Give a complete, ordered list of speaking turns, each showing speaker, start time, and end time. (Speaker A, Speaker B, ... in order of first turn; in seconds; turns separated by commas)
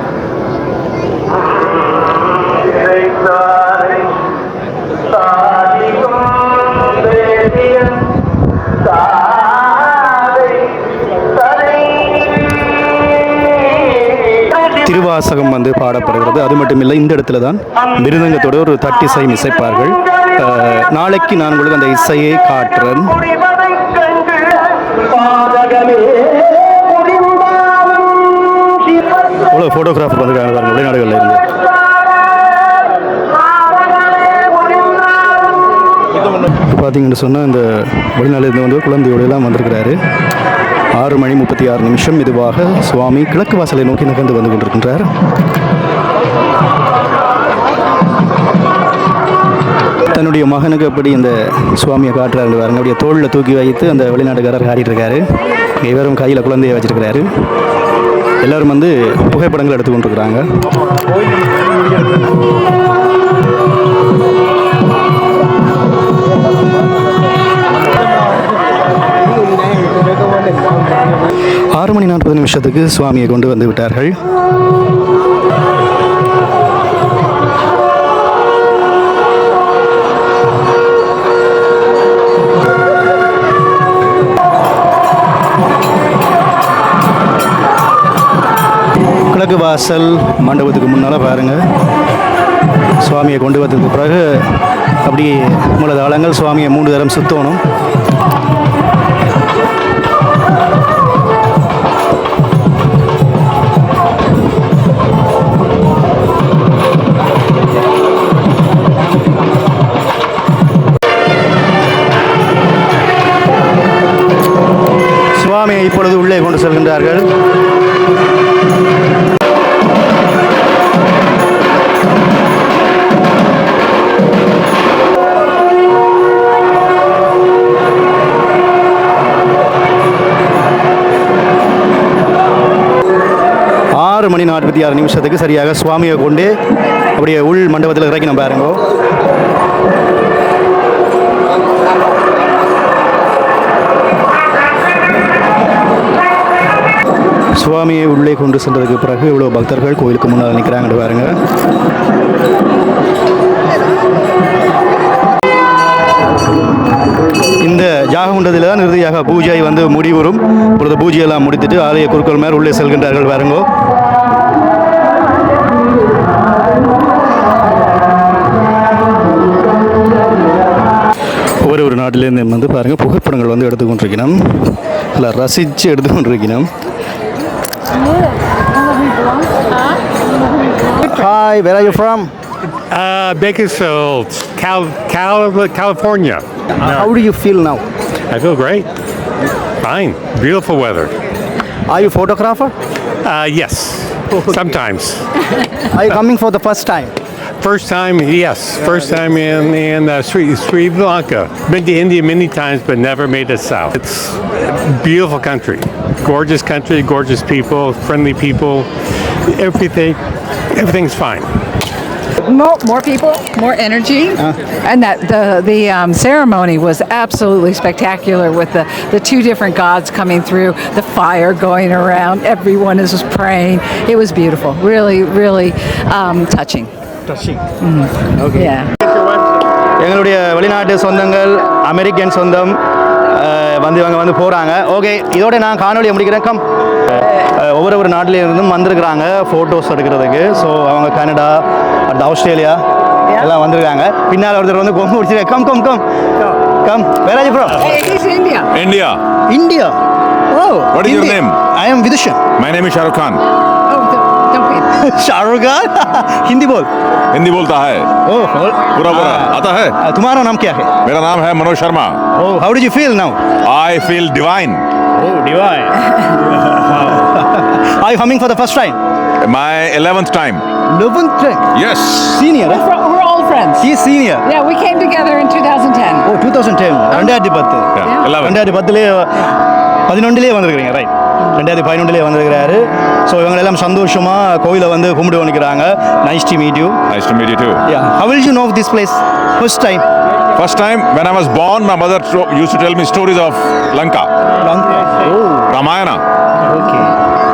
Speaker A: 2.6-4.0, Speaker A: 5.3-6.4, Speaker A: 7.0-7.9, Speaker A: 9.1-10.2, Speaker A: 14.7-23.4, Speaker A: 25.4-26.3, Speaker A: 29.5-31.4, Speaker A: 36.7-40.0, Speaker A: 40.9-45.1, Speaker A: 50.1-55.2, Speaker A: 55.8-57.3, Speaker A: 58.4-60.4, Speaker A: 71.7-74.2, Speaker A: 89.3-91.6, Speaker A: 93.0-97.6, Speaker A: 115.3-117.3, Speaker A: 133.9-136.6, Speaker A: 137.2-138.8, Speaker A: 147.6-151.3, Speaker A: 157.6-163.7, Speaker A: 171.6-176.7, Speaker A: 180.9-182.3, Speaker B: 182.9-187.1, Speaker A: 186.8-187.8, Speaker B: 188.3-188.9, Speaker B: 189.8-191.1, Speaker A: 191.9-192.7, Speaker B: 193.2-195.4, Speaker A: 195.9-197.1, Speaker B: 197.6-208.9, Speaker B: 209.5-210.2, Speaker B: 210.7-211.5, Speaker C: 212.4-226.9, Speaker A: 227.3-227.6, Speaker C: 227.8-228.9, Speaker A: 228.3-228.7, Speaker A: 230.0-242.8, Speaker A: 243.3-247.9, Speaker C: 247.8-248.7, Speaker D: 248.7-249.2, Speaker A: 249.5-250.0, Speaker A: 250.5-252.5, Speaker D: 250.9-251.6, Speaker D: 252.6-253.4, Speaker C: 253.9-254.9, Speaker A: 254.9-256.9, Speaker D: 257.3-258.1, Speaker A: 258.2-261.0, Speaker D: 258.8-260.0, Speaker D: 261.0-262.2, Speaker A: 262.3-263.4, Speaker D: 263.6-264.9, Speaker A: 265.2-269.0, Speaker D: 269.4-270.6, Speaker A: 270.9-272.8, Speaker D: 271.7-272.4, Speaker C: 272.6-273.9, Speaker A: 273.8-274.4, Speaker C: 274.4-276.3, Speaker A: 276.2-279.5, Speaker D: 277.9-278.6, Speaker A: 280.1-287.0, Speaker D: 287.1-287.8, Speaker A: 287.9-290.0, Speaker D: 290.5-294.3, Speaker A: 294.6-295.6, Speaker D: 295.7-296.2, Speaker A: 296.6-297.1